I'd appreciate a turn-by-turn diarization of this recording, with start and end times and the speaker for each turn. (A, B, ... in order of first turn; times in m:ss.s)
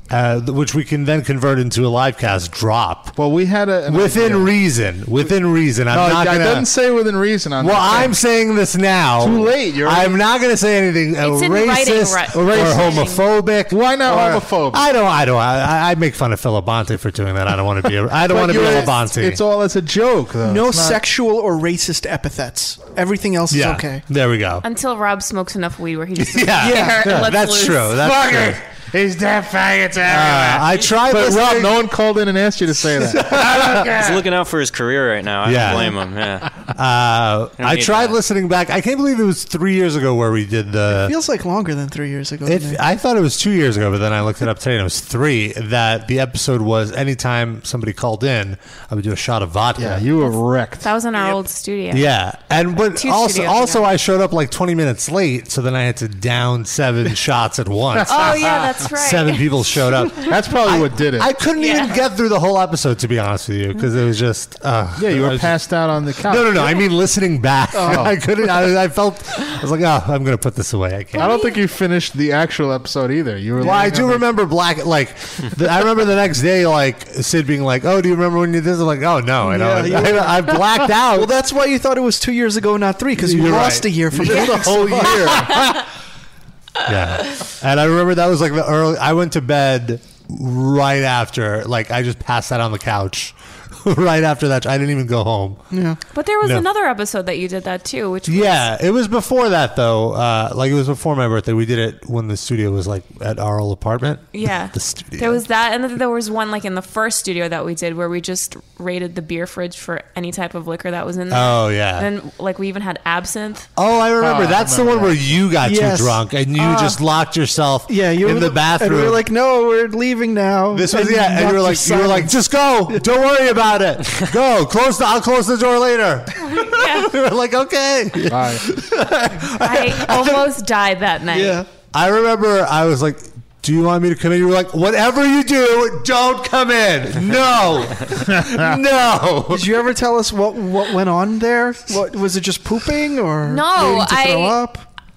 0:00.1-0:03.1 A
0:03.2-0:04.5 B
0:03.9-0:06.7 A
0:05.9-0:08.2 B
0:07.6-0:19.4 A
0:09.2-0:10.2 B
0:11.2-0:13.2 C
0:12.5-0:12.9 B
0:13.7-0:14.8 B
0:18.2-0:21.0 B
0:20.4-0:24.0 D
0:23.5-0:24.6 A
0:24.6-0:28.0 C
0:26.2-0:28.6 A
0:26.6-0:27.2 D
0:28.0-0:34.2 B
0:30.0-0:31.8 A
0:33.6-0:36.5 E
0:35.4-0:35.9 A
0:36.6-0:41.1 A
0:37.6-0:38.2 E
0:40.9-0:42.8 D
0:42.4-0:50.1 A
0:49.8-0:50.9 B
0:50.8-0:52.1 C
0:51.9-1:11.4 A
0:52.9-0:53.9 C
0:58.0-0:59.5 C
1:00.2-1:01.3 B
1:01.6-1:02.0 C
1:05.0-1:06.8 B
1:07.7-1:08.2 D
1:07.8-1:08.2 B
1:11.1-1:11.6 C
1:11.1-1:14.2 B
1:13.6-1:21.3 A
1:19.4-1:25.4 D
1:23.2-1:25.8 A
1:24.1-1:25.7 B
1:26.8-1:35.6 A
1:35.7-1:36.0 D
1:36.1-1:38.7 C
1:38.3-1:45.4 A
1:44.3-1:53.7 C
1:51.3-1:52.1 A
1:53.8-1:59.3 A
1:54.2-1:55.4 B
1:55.6-1:57.0 D
1:57.9-2:03.0 D
2:00.7-2:10.5 A
2:06.4-2:07.1 C
2:08.3-2:08.7 B
2:09.6-2:11.6 C
2:11.3-2:11.7 D
2:11.9-2:19.6 A
2:18.2-2:18.8 B
2:19.5-2:24.8 D
2:23.4-2:24.6 C